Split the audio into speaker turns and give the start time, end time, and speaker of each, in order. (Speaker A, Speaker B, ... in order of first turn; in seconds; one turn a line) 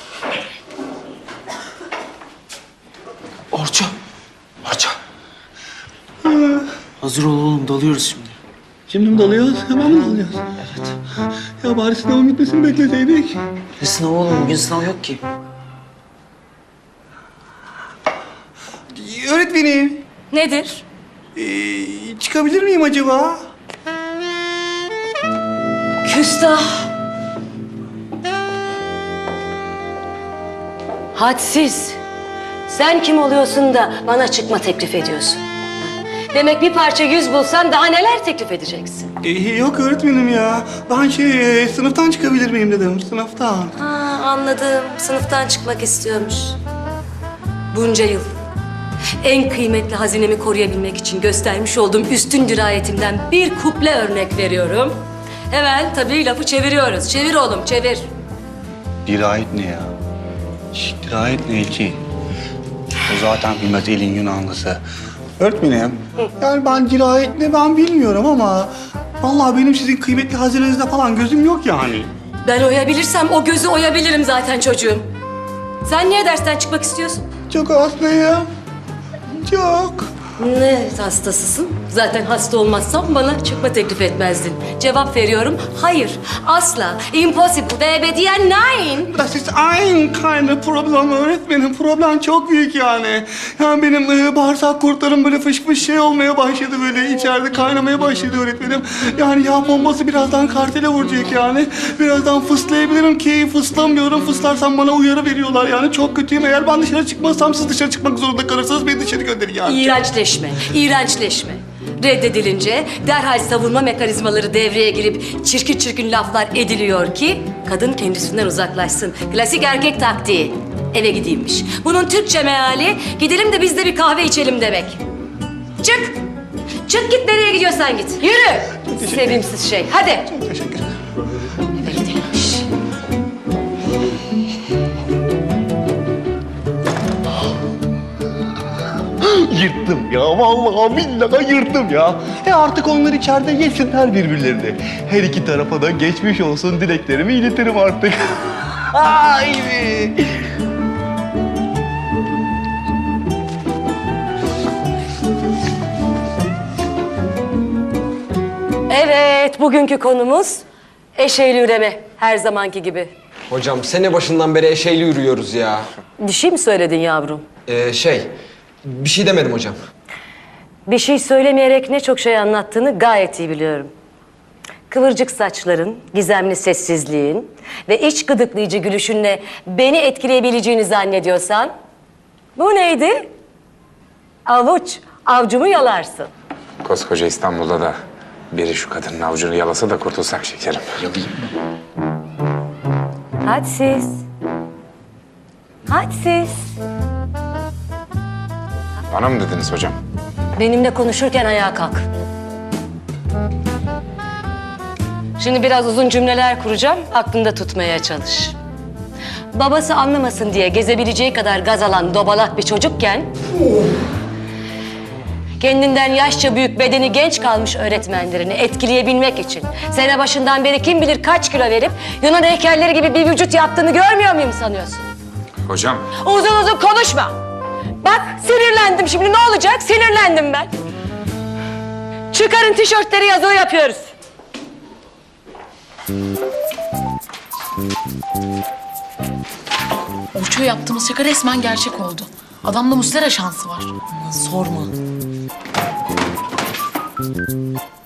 Speaker A: 3.5-3.9
Speaker B: 6.3-6.6
Speaker A: 7.0-8.3
Speaker B: 8.9-10.4
Speaker B: 11.6-13.4
Speaker A: 13.8-15.2
Speaker B: 18.9-20.0
Speaker C: 20.3-20.8
Speaker B: 21.4-23.4
Speaker C: 26.0-26.9
Speaker C: 31.1-32.0
Speaker C: 32.7-39.1
Speaker B: 39.2-43.7
Speaker C: 43.8-46.6
Speaker C: 47.7-48.3
Speaker C: 49.2-58.1
Speaker B: 59.1-59.9
Speaker B: 60.7-62.0
Speaker B: 63.1-64.8
Speaker B: 65.4-72.1
Speaker C: 72.4-75.1
Speaker C: 75.8-77.2
Speaker B: 77.5-78.5
Speaker B: 79.4-80.1
Speaker C: 80.4-89.1
Speaker B: 89.1-109.9
Speaker C: 109.7-125.0
Speaker C: 125.8-126.2
Speaker C: 126.8-130.2
Speaker B: 128.9-129.5
Speaker B: 130.3-130.9
Speaker B: 131.8-132.5
Speaker B: 139.2-150.5
Speaker C: 158.9-160.6
Speaker C: 161.2-163.1
Speaker D: 163.5-165.8
Speaker C: 166.2-167.4
Speaker D: 167.7-168.3
Speaker D: 168.9-169.8
Speaker C: 170.9-173.9
Speaker C: 174.9-181.7
Speaker C: 182.6-183.3
Speaker C: 184.5-186.3
Speaker E: 186.8-188.0
Speaker E: 188.5-191.3
Speaker C: 193.4-194.2
Speaker C: 195.9-196.7
Speaker E: 199.1-200.0
Speaker C: 200.6-202.1
Speaker C: 205.4-208.6
Speaker C: 209.5-213.3
Speaker C: 215.6-225.1
Speaker E: 225.7-226.1
Speaker C: 226.2-227.4
Speaker C: 228.0-230.7
Speaker C: 232.3-234.1
Speaker F: 240.3-244.9